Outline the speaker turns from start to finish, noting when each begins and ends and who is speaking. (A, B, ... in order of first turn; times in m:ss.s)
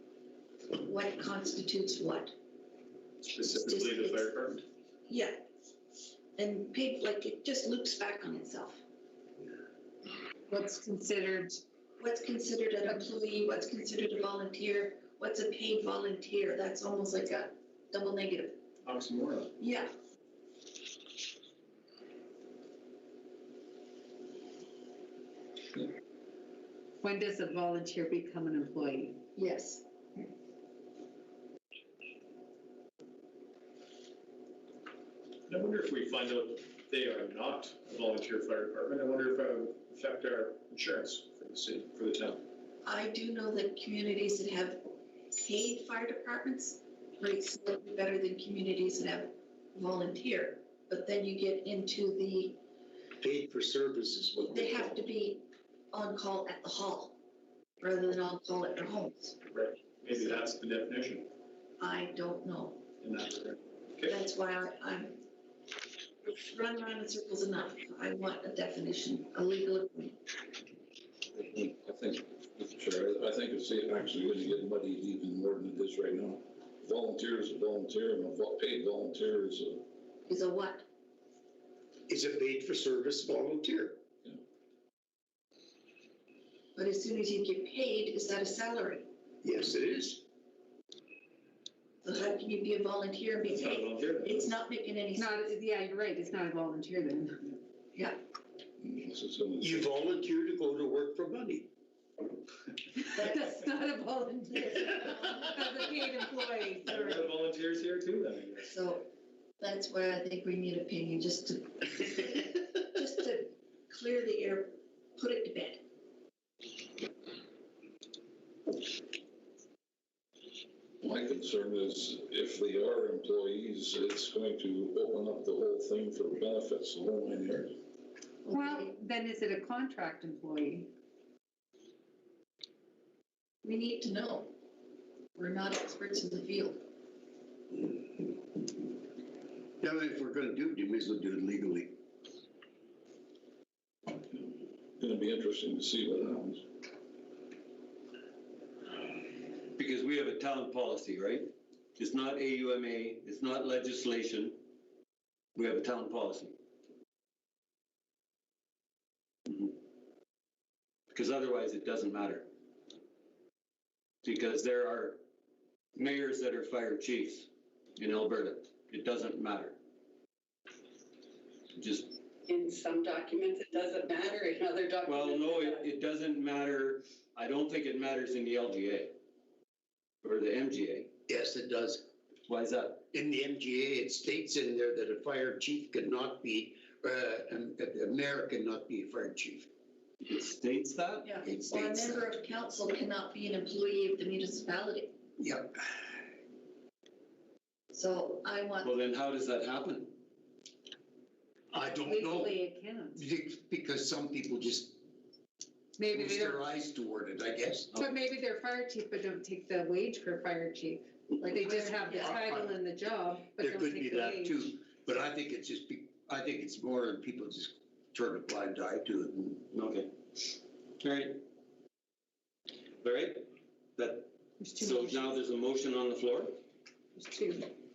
0:00.8-0:02.3 A
0:03.2-0:04.6 B
0:03.6-0:04.3 A
0:05.1-0:05.4 A
0:06.4-0:08.8 A
0:10.5-0:11.6 C
0:12.0-0:18.6 A
0:18.8-0:19.5 B
0:19.6-0:19.9 A
0:27.0-0:29.2 C
0:29.4-0:29.8 A
0:35.5-0:42.4 B
0:42.8-0:52.6 A
0:53.2-0:55.0 D
0:54.5-0:57.2 A
0:57.8-0:59.4 A
0:59.5-1:01.3 B
1:01.8-1:02.8 A
1:03.0-1:04.2 B
1:04.1-1:05.2 A
1:06.2-1:10.2 A
1:11.3-1:19.9 E
1:20.3-1:20.9 A
1:22.1-1:24.0 D
1:26.8-1:29.1 A
1:29.4-1:30.2 D
1:32.0-1:35.5 A
1:33.5-1:34.5 B
1:35.2-1:37.6 C
1:38.8-1:39.9 E
1:39.6-1:41.7 D
1:43.0-1:47.3 C
1:44.9-1:45.5 A
1:46.8-1:48.7 B
1:48.7-1:49.0 A
1:49.6-1:55.8 A
2:01.0-2:07.7 E
2:08.4-2:09.0 A
2:08.5-2:10.9 C
2:13.6-2:14.6 A
2:15.4-2:16.8 A
2:19.8-2:22.0 D
2:24.1-2:26.7 E
2:29.8-2:34.6 F
2:35.6-2:36.6 F
2:39.5-2:39.8 F
2:41.1-2:42.5 F
2:44.2-2:45.2 F
2:46.0-2:49.8 F
2:51.8-2:52.2 F
2:52.5-2:55.8 G
2:55.1-2:59.2 F
3:00.2-3:01.1 F
3:01.3-3:02.1 D
3:02.5-3:03.0 F
3:03.1-3:09.7 D
3:10.2-3:11.3 F
3:11.2-3:15.2 A
3:11.4-3:12.2 D
3:15.4-3:16.2 D
3:17.9-3:18.9 A
3:18.8-3:20.2 F
3:21.7-3:22.6 D
3:21.9-3:23.2 C
3:23.2-3:25.0 D
3:26.0-3:26.7 C
3:26.1-3:27.9 D
3:27.9-3:34.6 C
3:31.4-3:32.8 D
3:33.6-3:39.6 D
3:39.7-3:41.4 F
3:43.0-3:46.6 F
3:44.6-3:45.4 C
3:47.2-3:47.7 C